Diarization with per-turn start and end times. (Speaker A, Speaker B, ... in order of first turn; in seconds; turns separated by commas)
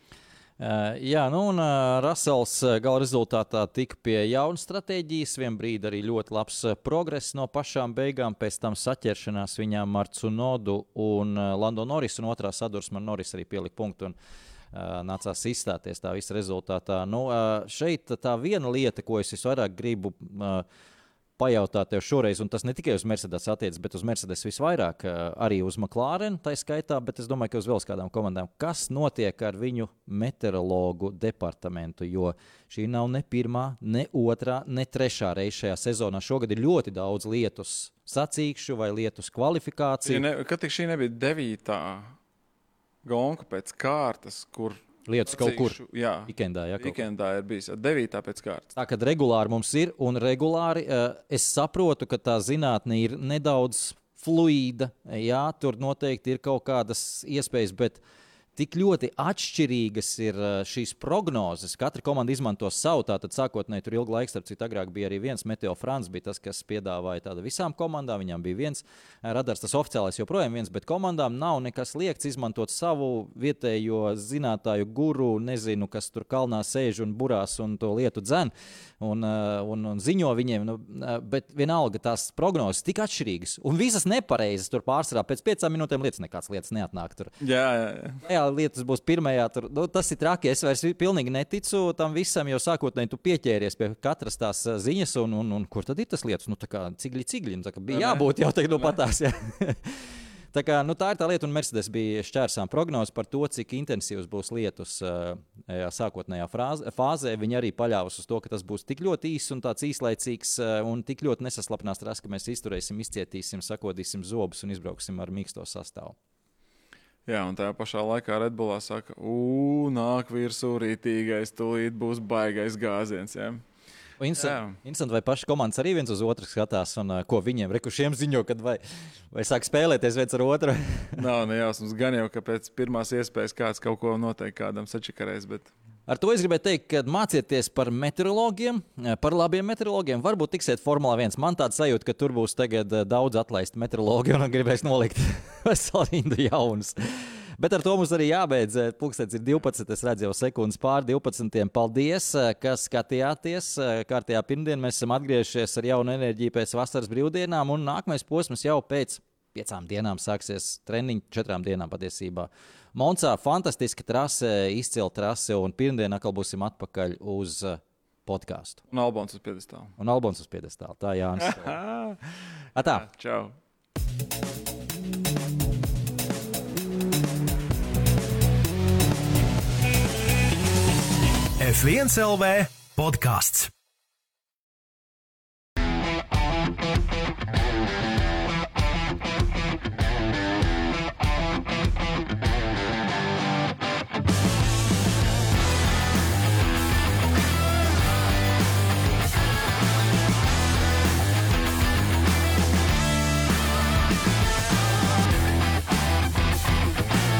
Speaker A: 0.6-14.2, Speaker A: 14.7-20.7, Speaker A: 21.4-40.2, Speaker B: 40.1-42.1, Speaker B: 43.0-48.7, Speaker A: 45.1-47.0, Speaker A: 48.8-58.0, Speaker A: 58.6-87.3, Speaker B: 87.4-88.2, Speaker A: 88.2-100.0, Speaker B: 97.9-99.0, Speaker A: 100.5-116.2, Speaker B: 117.3-123.6, Speaker A: 124.2-128.8, Speaker B: 124.4-124.8, Speaker A: 129.3-131.2, Speaker B: 131.2-135.7, Speaker A: 136.1-168.8, Speaker B: 168.9-169.9, Speaker A: 170.0-171.8, Speaker B: 171.4-173.6, Speaker A: 172.8-173.1, Speaker C: 181.6-183.7